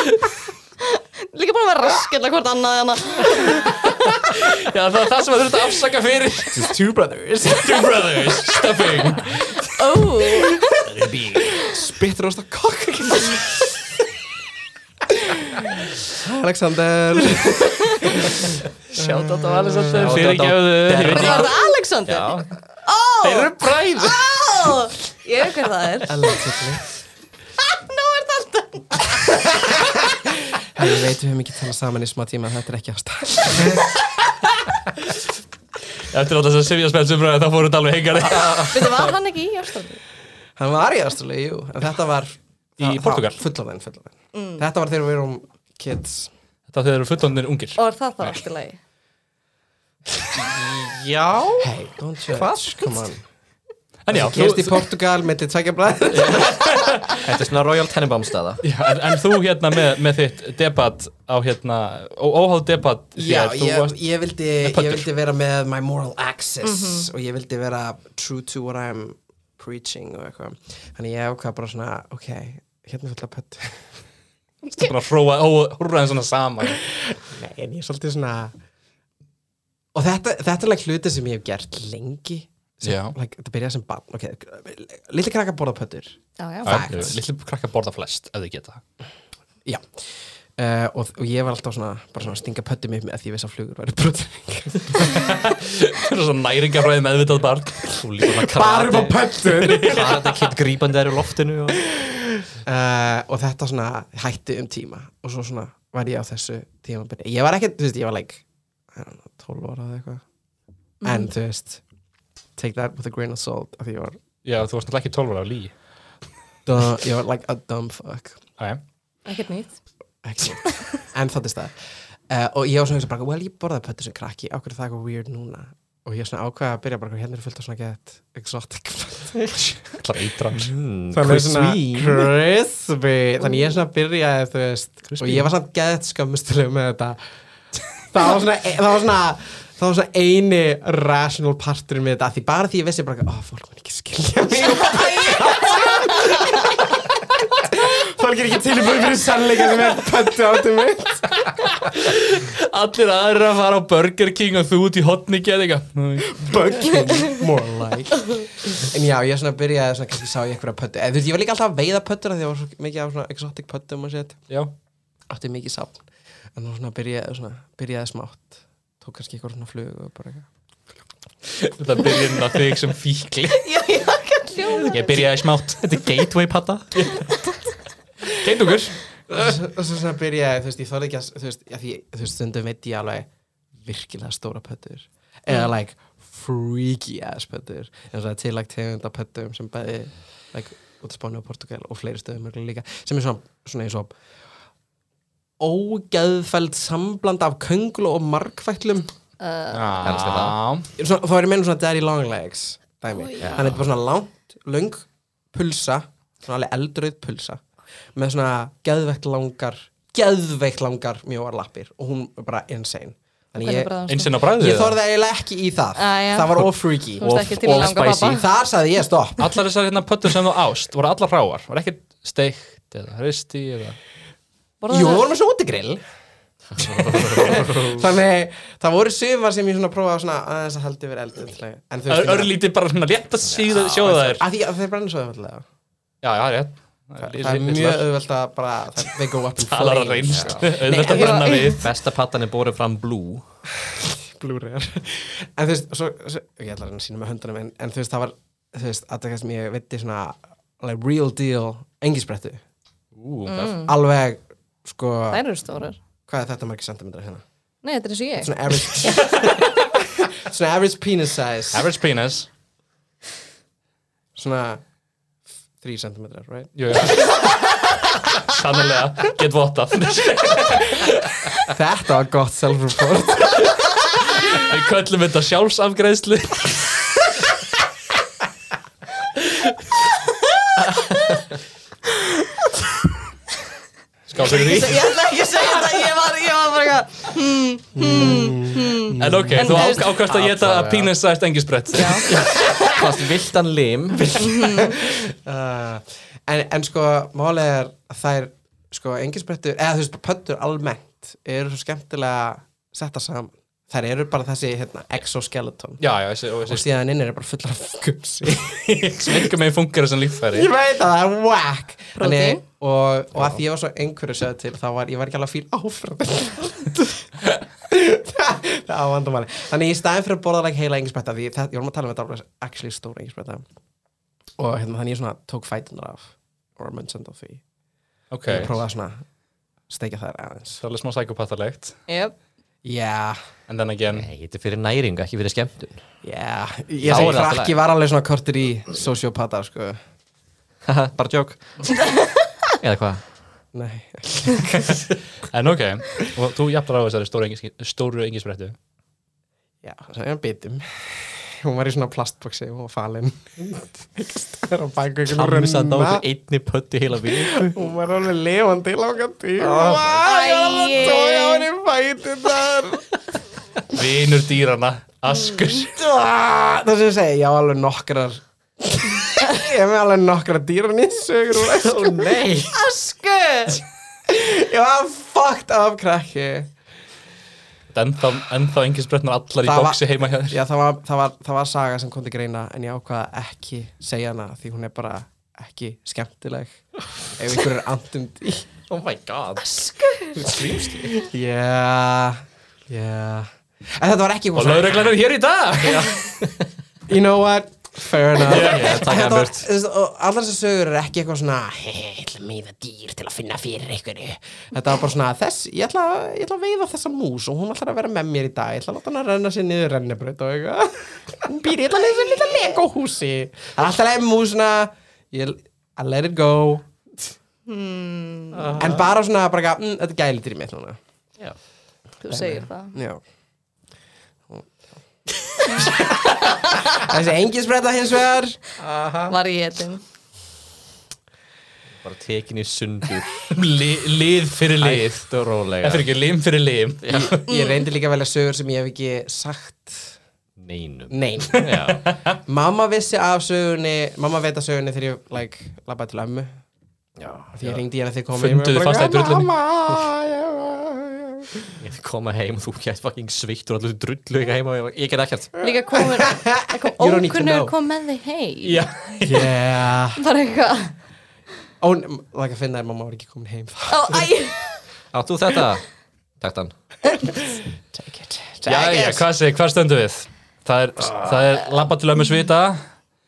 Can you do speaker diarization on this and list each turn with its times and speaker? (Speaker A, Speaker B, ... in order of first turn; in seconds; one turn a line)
Speaker A: 0.9-3.7
Speaker B: 3.6-6.8
Speaker C: 6.5-8.6
Speaker B: 7.5-9.8
Speaker A: 9.7-10.8
Speaker C: 10.2-13.8
Speaker B: 10.8-11.5
Speaker C: 15.1-20.2
Speaker B: 18.9-21.5
Speaker D: 19.9-21.5
Speaker A: 21.1-26.4
Speaker D: 22.1-22.4
Speaker B: 23.2-24.3
Speaker C: 26.1-26.8
Speaker A: 27.7-29.2
Speaker C: 29.7-33.9
Speaker B: 36.0-39.0
Speaker D: 38.3-39.0
Speaker A: 38.6-40.0
Speaker C: 40.6-46.3
Speaker B: 42.8-43.4
Speaker A: 44.3-44.6
Speaker B: 46.7-48.4
Speaker A: 47.8-48.8
Speaker D: 50.4-51.7
Speaker C: 51.6-53.2
Speaker D: 52.3-53.0
Speaker B: 54.0-54.8
Speaker C: 54.1-56.9
Speaker D: 56.1-58.6
Speaker B: 56.5-57.2
Speaker B: 58.6-63.9
Speaker C: 63.1-73.9
Speaker B: 64.6-65.0
Speaker A: 66.6-67.1
Speaker B: 74.7-76.8
Speaker C: 77.0-78.5
Speaker C: 79.9-87.2
Speaker B: 82.8-83.1
Speaker A: 86.4-86.8
Speaker B: 86.6-88.8
Speaker C: 89.6-90.0
Speaker C: 90.6-95.3
Speaker B: 95.0-98.0
Speaker D: 97.9-101.9
Speaker C: 98.4-100.4
Speaker C: 101.9-110.2
Speaker A: 111.0-111.3
Speaker C: 111.0-111.8
Speaker C: 112.6-114.2
Speaker B: 114.4-115.7
Speaker C: 116.7-118.4
Speaker A: 119.2-119.8
Speaker C: 120.2-121.7
Speaker C: 122.3-129.7
Speaker B: 129.6-130.7
Speaker D: 130.6-132.3
Speaker C: 131.1-137.2
Speaker B: 135.1-135.5
Speaker C: 138.1-151.3
Speaker A: 144.8-146.2
Speaker B: 151.4-156.9
Speaker C: 156.3-164.4
Speaker C: 165.3-170.5
Speaker B: 171.6-173.7
Speaker A: 173.5-175.2
Speaker B: 174.9-176.0
Speaker D: 175.8-177.1
Speaker B: 178.2-179.0
Speaker C: 179.3-183.3
Speaker C: 183.8-194.1
Speaker C: 195.6-199.1
Speaker A: 199.4-200.0
Speaker B: 199.7-200.9
Speaker D: 200.0-200.6
Speaker C: 201.0-207.6
Speaker A: 203.1-203.6
Speaker D: 203.4-203.7
Speaker C: 208.2-219.6
Speaker A: 213.6-214.3
Speaker B: 214.1-215.0
Speaker A: 215.9-216.6
Speaker A: 217.2-218.4
Speaker D: 217.2-218.4
Speaker B: 219.4-224.0
Speaker A: 224.8-225.2
Speaker C: 224.9-226.0
Speaker D: 226.7-228.0
Speaker C: 226.8-232.5
Speaker B: 232.1-234.4
Speaker C: 233.7-235.6
Speaker B: 236.2-238.0
Speaker C: 237.2-241.7
Speaker B: 239.6-241.9
Speaker D: 240.3-240.6
Speaker A: 241.0-241.8
Speaker D: 241.8-243.4
Speaker C: 243.8-252.6
Speaker B: 253.1-253.7
Speaker A: 253.5-253.9
Speaker C: 253.8-255.4
Speaker A: 255.3-256.0
Speaker C: 256.3-257.4
Speaker A: 257.8-258.5
Speaker C: 258.4-261.9
Speaker B: 261.7-262.5
Speaker C: 264.3-264.8
Speaker C: 265.8-266.7
Speaker B: 266.7-267.3
Speaker B: 268.3-271.6
Speaker C: 271.7-274.0
Speaker B: 274.3-276.9
Speaker B: 284.3-285.0
Speaker A: 284.4-290.1
Speaker C: 287.9-290.0
Speaker B: 289.1-292.4
Speaker D: 290.2-291.1
Speaker A: 291.9-292.9
Speaker D: 292.2-294.6
Speaker C: 292.3-293.0
Speaker C: 294.2-306.0
Speaker A: 294.4-295.0
Speaker B: 306.0-306.8
Speaker C: 306.6-309.5
Speaker B: 309.0-310.7
Speaker C: 310.5-323.6
Speaker A: 312.1-312.6
Speaker C: 324.6-327.6
Speaker B: 328.3-328.7
Speaker C: 328.5-329.2
Speaker C: 329.9-330.8
Speaker B: 330.8-332.0
Speaker A: 332.1-332.3
Speaker C: 332.8-333.4
Speaker B: 333.7-334.3
Speaker D: 334.1-336.0
Speaker C: 336.2-340.0
Speaker D: 337.0-337.8
Speaker B: 337.1-337.4
Speaker D: 340.9-341.6
Speaker D: 342.8-343.2
Speaker C: 343.7-345.1
Speaker B: 345.5-348.8
Speaker C: 349.8-356.2
Speaker D: 355.3-357.7
Speaker C: 357.4-363.1
Speaker D: 359.6-360.2
Speaker A: 360.2-361.6
Speaker B: 363.9-365.9
Speaker C: 365.9-372.3
Speaker D: 371.7-372.7
Speaker A: 372.7-373.8
Speaker C: 374.3-376.7
Speaker B: 377.9-380.6
Speaker C: 379.6-386.7
Speaker C: 387.4-388.7
Speaker D: 388.9-389.7
Speaker A: 389.6-390.5
Speaker D: 390.3-391.3
Speaker C: 391.2-395.1
Speaker B: 394.5-396.2
Speaker D: 395.8-396.7
Speaker C: 397.1-416.9
Speaker D: 398.4-399.6
Speaker B: 398.4-399.1
Speaker A: 417.7-418.7
Speaker D: 418.5-419.0
Speaker C: 418.8-421.0
Speaker A: 422.2-422.9
Speaker C: 422.3-423.2
Speaker A: 425.7-426.8
Speaker C: 425.8-428.6
Speaker D: 428.8-429.3
Speaker A: 429.3-430.0
Speaker D: 432.0-433.5
Speaker B: 433.5-435.3
Speaker D: 434.8-436.1
Speaker B: 435.8-437.4
Speaker D: 437.0-437.3
Speaker C: 437.1-440.2
Speaker A: 437.5-437.8
Speaker D: 440.6-442.1
Speaker C: 441.1-441.7
Speaker B: 441.5-442.4
Speaker C: 442.5-446.5
Speaker D: 447.2-447.8
Speaker C: 447.6-451.7
Speaker B: 448.4-449.5
Speaker D: 451.8-455.6
Speaker A: 455.6-458.8
Speaker C: 455.9-457.7
Speaker B: 458.6-459.6
Speaker C: 459.2-460.2
Speaker A: 460.1-460.9
Speaker C: 461.8-464.3
Speaker A: 463.9-464.8
Speaker D: 465.1-465.9
Speaker D: 466.4-466.7
Speaker C: 467.4-469.3
Speaker B: 468.7-472.8